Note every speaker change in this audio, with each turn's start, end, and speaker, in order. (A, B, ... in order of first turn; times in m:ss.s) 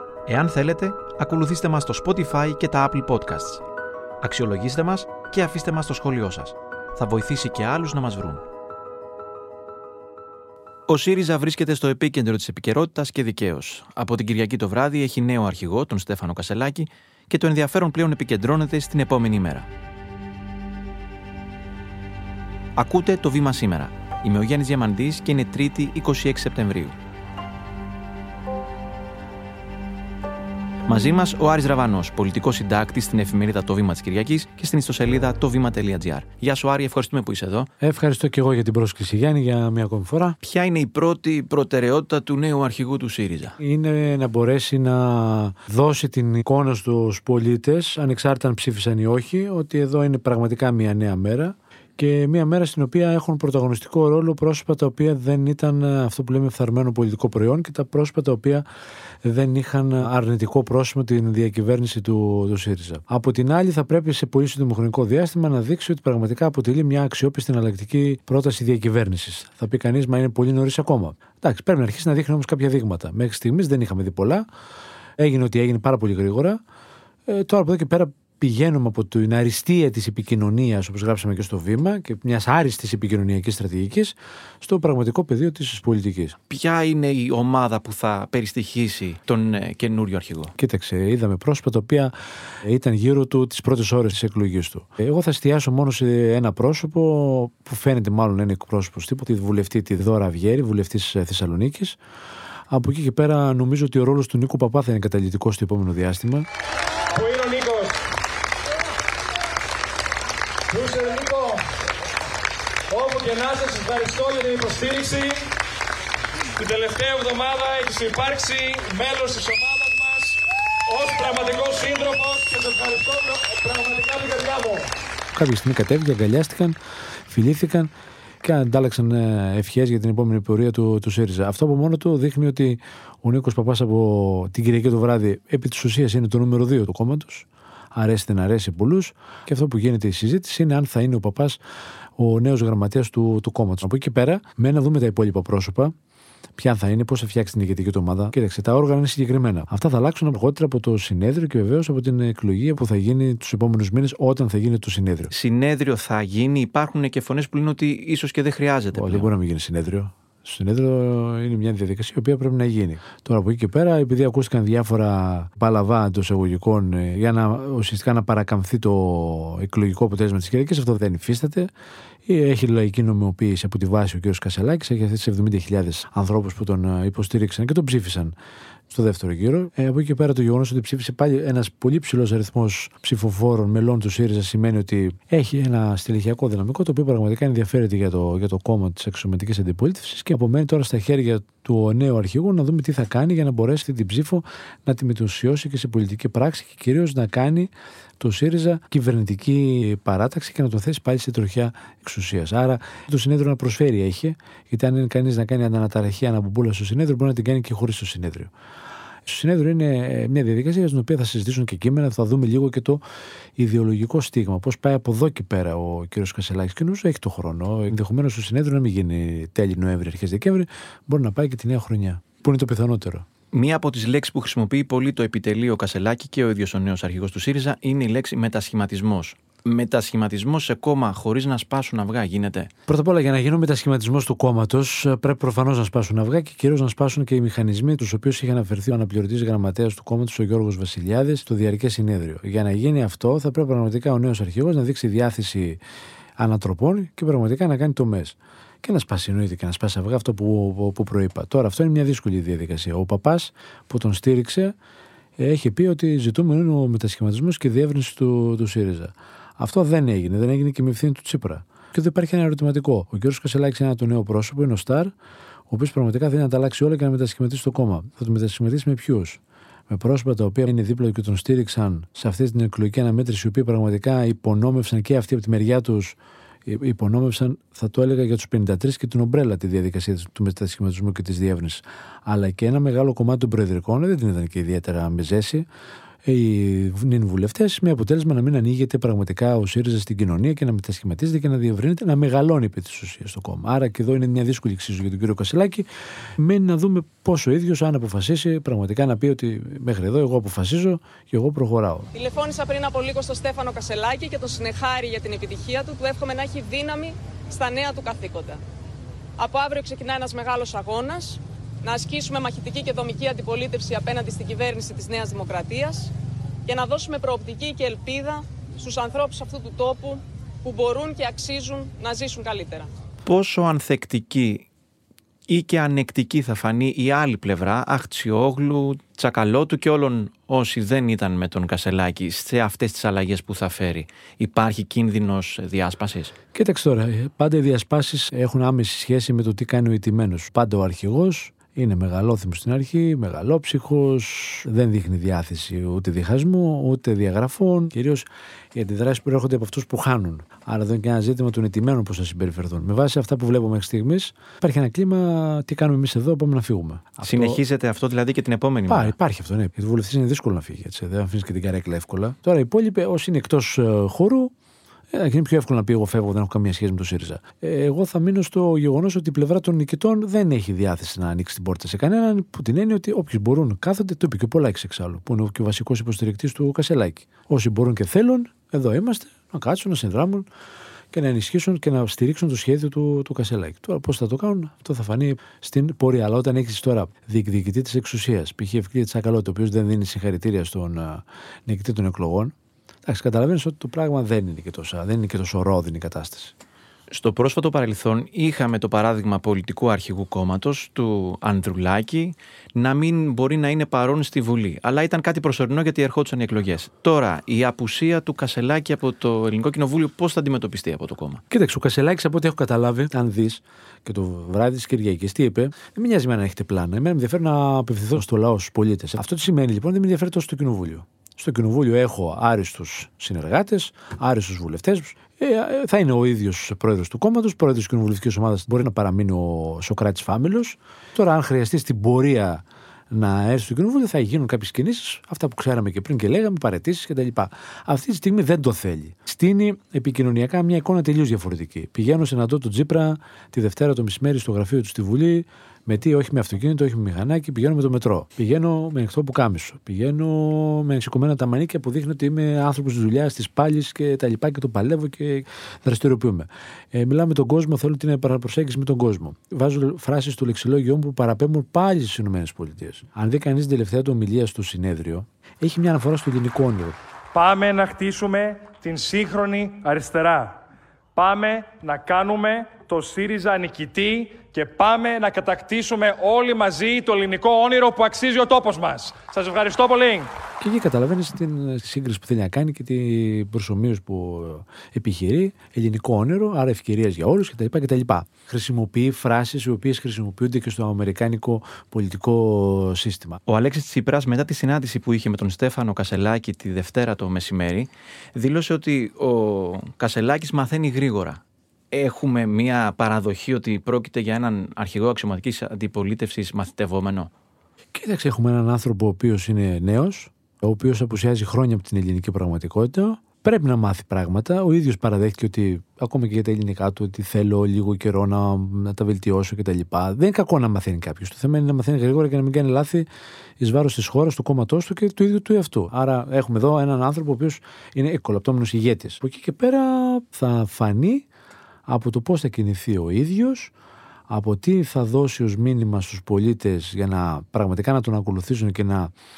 0:00.2-0:03.6 A
0:04.2-0:08.4 A
0:10.9-0:19.7 A
0:22.8-0:26.9 A
0:30.9-0:37.7 A
0:37.8-0:40.4 B
0:40.4-0:43.6 A
0:43.6-0:58.6 B
0:59.2-1:14.4 B
1:15.2-1:16.6 B
1:17.3-1:26.3 B
1:26.5-1:30.5 A
1:30.6-1:42.0 B
1:42.7-1:46.5 B
1:47.1-1:48.0 C
1:50.7-1:51.6 C
1:52.9-1:55.4 C
1:56.6-2:04.9 C
2:05.3-2:06.8 B
2:07.3-2:07.9 B
2:08.4-2:21.6 B
2:22.2-2:25.9 B
2:26.6-2:35.3 B
2:35.3-2:39.3 A
2:38.9-2:51.7 B
2:52.2-2:58.3 B
2:58.9-3:28.5 B
3:29.2-3:33.0 B
3:33.6-3:43.2 B
3:43.5-3:52.7 A
3:52.9-4:05.8 B
4:06.4-4:14.7 B
4:15.4-4:25.1 B
4:25.7-4:45.6 B
4:46.2-4:55.9 B
4:56.4-5:02.1 B
5:02.1-5:08.6 D
5:09.4-5:16.1 D
5:16.6-5:22.9 D
5:23.2-5:24.7 A
5:25.5-5:36.3 A
5:36.5-5:57.6 B
5:57.2-5:59.1 A
5:58.9-6:04.5 B
6:05.1-6:20.4 B
6:21.1-6:32.5 B
6:33.0-6:36.5 B
6:37.1-6:51.4 A
6:51.5-7:47.0 B
7:47.3-7:50.6 C
7:51.1-8:00.3 C
8:00.6-8:13.4 B
8:13.5-8:27.3 A
8:27.9-8:43.1 B
8:43.6-8:51.3 B
8:51.9-8:53.7 B
8:54.3-8:59.1 B